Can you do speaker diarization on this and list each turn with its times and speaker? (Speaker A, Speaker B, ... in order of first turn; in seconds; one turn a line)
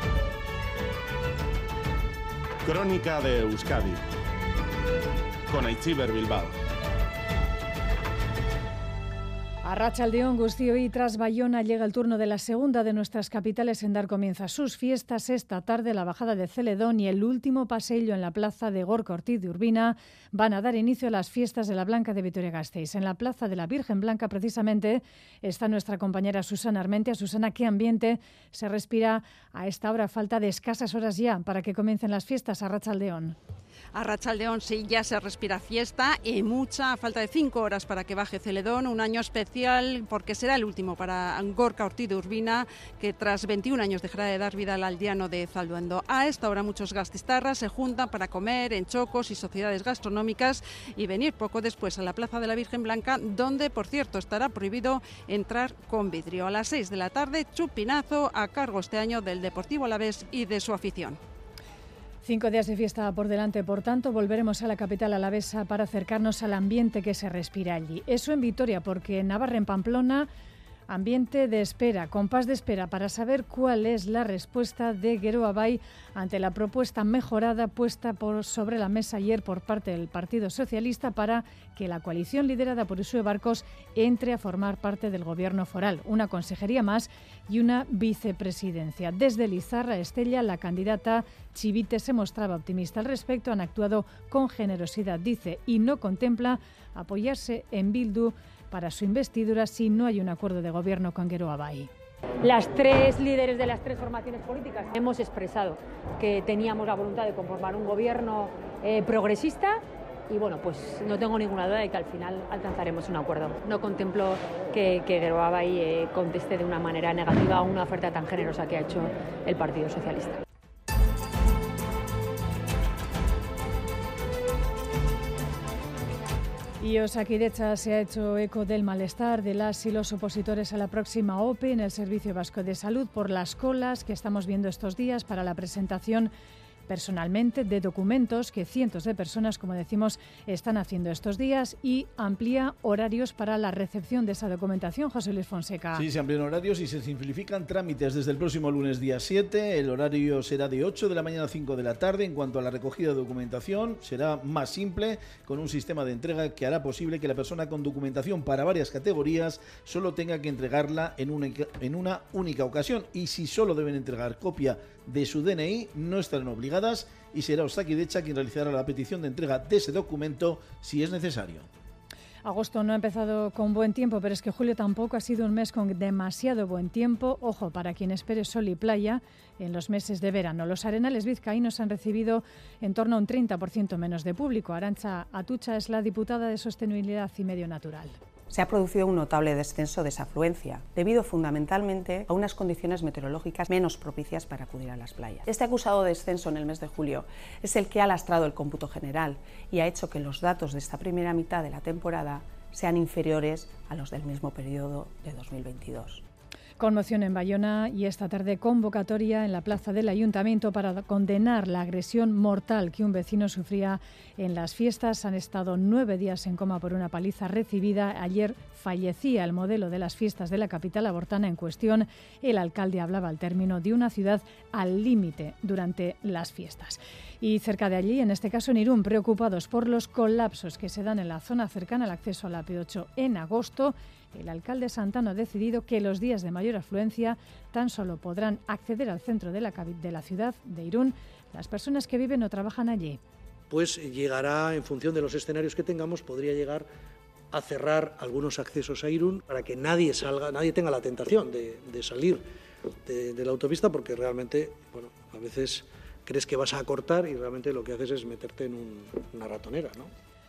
Speaker A: 2.6-4.0
Speaker A: 5.5-6.5
Speaker B: 9.6-33.4
Speaker C: 33.9-61.2
Speaker B: 62.2-70.3
Speaker B: 70.9-101.9
Speaker D: 102.4-120.4
Speaker B: 126.8-136.3
Speaker B: 136.9-146.1
Speaker E: 145.9-171.7
Speaker B: 172.4-188.2
Speaker F: 188.5-206.2
Speaker B: 206.8-243.2
Speaker G: 243.7-246.9
Speaker G: 247.5-252.4
Speaker G: 253.1-260.1